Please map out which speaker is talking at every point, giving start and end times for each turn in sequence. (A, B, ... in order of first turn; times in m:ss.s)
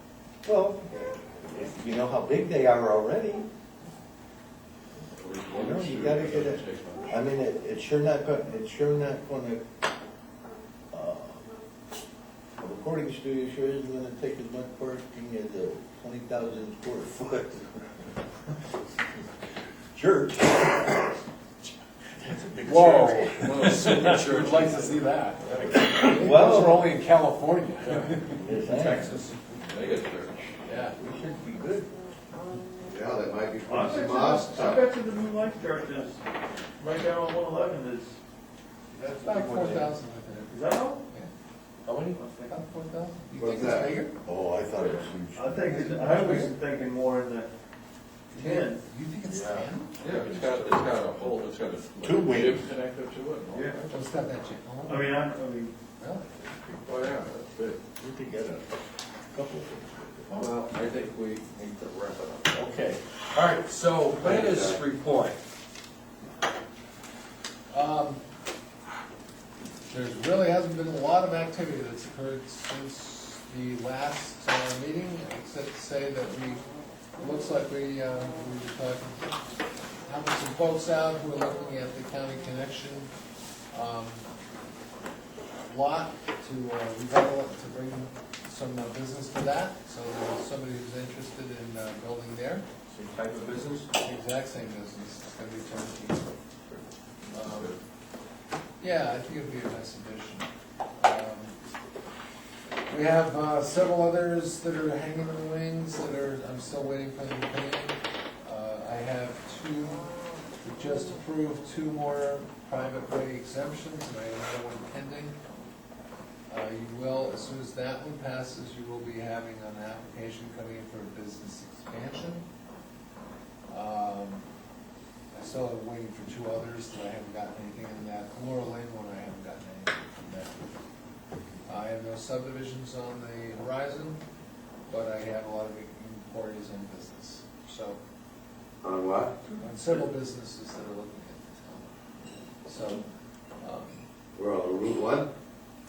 0:00.4-0:03.5 A
0:05.1-0:07.2 B
0:05.5-0:09.6 A
0:10.9-0:11.5 A
0:12.6-0:18.0 A
0:19.9-0:21.1 A
0:22.2-0:25.9 C
0:22.6-0:29.6 D
0:23.4-0:24.7 B
0:25.9-0:26.9 A
0:27.8-0:28.2 C
0:28.4-0:29.1 A
0:28.7-0:29.2 C
0:29.6-0:30.6 B
0:30.6-0:31.0 D
0:31.0-0:31.9 A
0:32.8-0:34.8 E
0:33.6-0:36.2 F
0:36.8-0:38.2 F
0:39.0-0:39.9 C
0:39.0-0:41.3 D
0:40.5-0:41.0 F
0:41.8-0:42.2 C
0:42.2-0:42.5 F
0:42.5-0:44.1 D
0:43.4-0:44.0 E
0:44.2-0:45.6 A
0:45.3-0:47.5 F
0:45.6-0:46.5 D
0:48.3-0:48.8 F
0:48.3-0:50.0 D
0:50.0-0:54.0 B
0:50.0-0:50.8 C
0:52.0-0:52.6 A
0:53.5-0:53.8 F
0:53.9-0:55.2 D
0:54.8-0:55.7 F
0:56.0-0:56.3 D
0:56.7-0:57.8 B
0:58.0-0:58.8 A
0:59.3-1:00.5 A
1:00.3-1:02.7 B
1:02.5-1:05.4 C
1:04.2-1:04.8 B
1:07.7-1:08.2 D
1:09.9-1:16.6 D
1:17.2-1:19.3 D
1:20.0-1:23.1 D
1:23.7-1:24.3 D
1:25.7-1:32.6 D
1:32.9-1:33.9 C
1:34.0-1:36.3 D
1:37.3-1:37.8 B
1:37.3-1:37.7 D
1:38.8-1:41.6 D
1:42.9-1:55.4 D
1:56.5-2:02.4 D
2:03.7-2:04.4 D
2:05.3-2:10.7 D
2:11.6-2:14.2 D
2:14.9-2:18.0 D
2:18.8-2:19.4 E
2:19.6-2:21.9 D
2:22.6-2:23.0 D
2:23.6-2:24.0 D
2:24.4-2:25.3 E